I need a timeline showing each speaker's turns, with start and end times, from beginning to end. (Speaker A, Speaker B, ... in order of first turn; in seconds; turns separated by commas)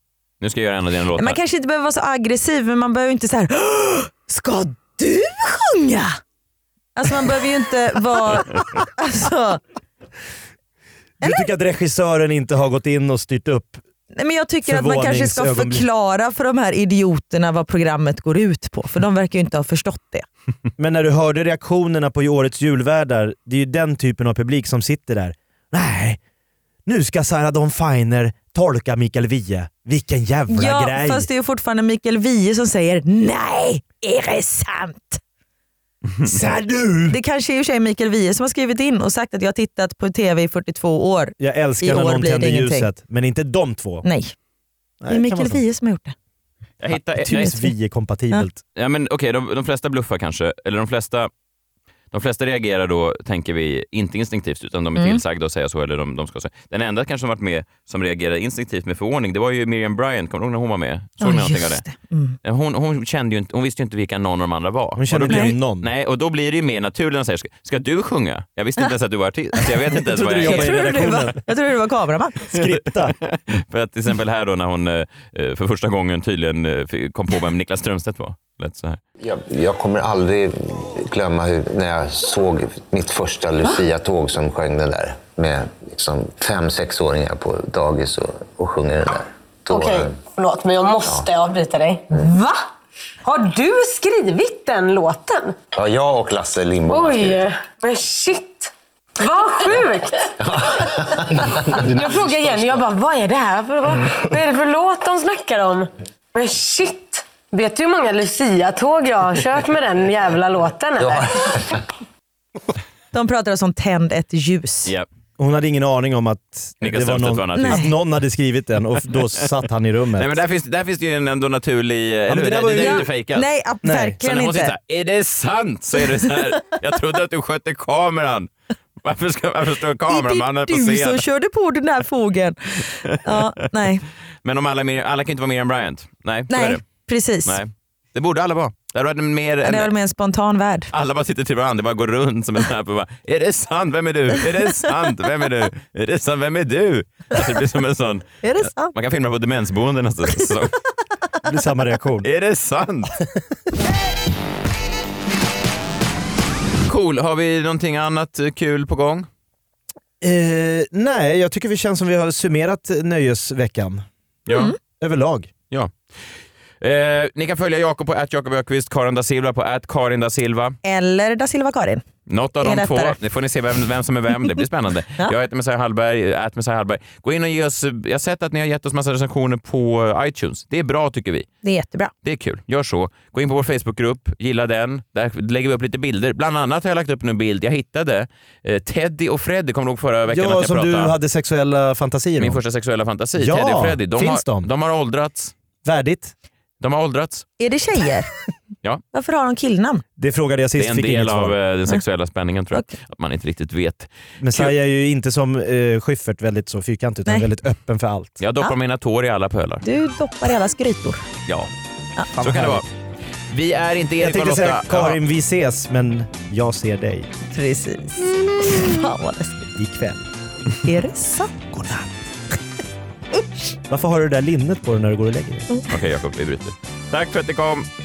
Speaker A: 0.4-1.4, Speaker B: 1.2-6.2, Speaker B: 7.0-9.6, Speaker B: 11.2-11.5, Speaker C: 11.2-13.8, Speaker B: 14.1-20.2, Speaker C: 14.6-15.8, Speaker C: 20.8-26.2, Speaker C: 26.9-31.3, Speaker B: 30.5-35.2, Speaker C: 36.2-37.2, Speaker B: 37.1-42.9, Speaker C: 41.4-44.0, Speaker B: 44.0-44.3, Speaker C: 45.0-45.6, Speaker B: 45.1-46.1, Speaker A: 46.8-47.5, Speaker C: 46.9-48.6, Speaker B: 47.2-47.7, Speaker A: 48.7-51.3, Speaker A: 52.1-61.8, Speaker B: 55.0-55.2, Speaker B: 61.2-62.4, Speaker A: 62.4-71.1, Speaker C: 65.0-65.9, Speaker B: 65.3-65.5, Speaker C: 69.9-71.4, Speaker B: 70.4-72.4, Speaker C: 72.4-73.2, Speaker A: 73.1-79.0, Speaker D: 79.2-90.2, Speaker E: 89.7-92.7, Speaker E: 93.2-95.6, Speaker D: 95.7-97.5, Speaker E: 96.9-100.8, Speaker D: 100.4-102.5, Speaker E: 101.7-111.7, Speaker D: 111.0-111.6, Speaker B: 113.1-114.9, Speaker C: 115.4-120.4, Speaker A: 116.8-117.9, Speaker B: 117.6-117.9, Speaker A: 119.1-119.5, Speaker A: 120.2-123.4, Speaker C: 122.3-123.1, Speaker B: 122.8-124.7, Speaker C: 123.8-124.2, Speaker A: 124.2-131.2, Speaker B: 130.1-134.0, Speaker A: 133.0-133.7, Speaker A: 134.4-136.8, Speaker B: 136.5-137.6, Speaker A: 137.4-139.9, Speaker B: 139.6-140.9, Speaker A: 140.9-150.8, Speaker B: 148.4-148.9, Speaker C: 151.4-152.3, Speaker A: 152.2-153.1, Speaker A: 156.8-159.3, Speaker C: 160.2-164.1, Speaker A: 164.5-164.7, Speaker B: 164.5-164.8, Speaker C: 165.0-165.5, Speaker A: 166.8-170.8, Speaker B: 170.8-172.0, Speaker A: 172.3-181.5, Speaker B: 172.6-173.2, Speaker B: 181.6-182.1, Speaker A: 182.2-191.1, Speaker C: 190.3-192.6, Speaker A: 192.4-195.5, Speaker C: 193.3-194.7, Speaker C: 195.8-196.3, Speaker A: 196.8-197.4, Speaker B: 197.6-198.3, Speaker B: 199.1-200.0, Speaker C: 200.2-201.6, Speaker A: 200.8-204.7, Speaker C: 204.4-208.4, Speaker A: 208.4-209.8, Speaker B: 209.8-211.2, Speaker A: 212.3-212.9, Speaker C: 212.4-212.8, Speaker A: 213.5-215.2, Speaker C: 214.2-217.3, Speaker B: 217.5-219.7, Speaker C: 219.8-220.2, Speaker B: 220.8-221.8, Speaker C: 221.7-222.1, Speaker B: 223.3-223.7, Speaker C: 223.9-225.7, Speaker A: 225.9-227.9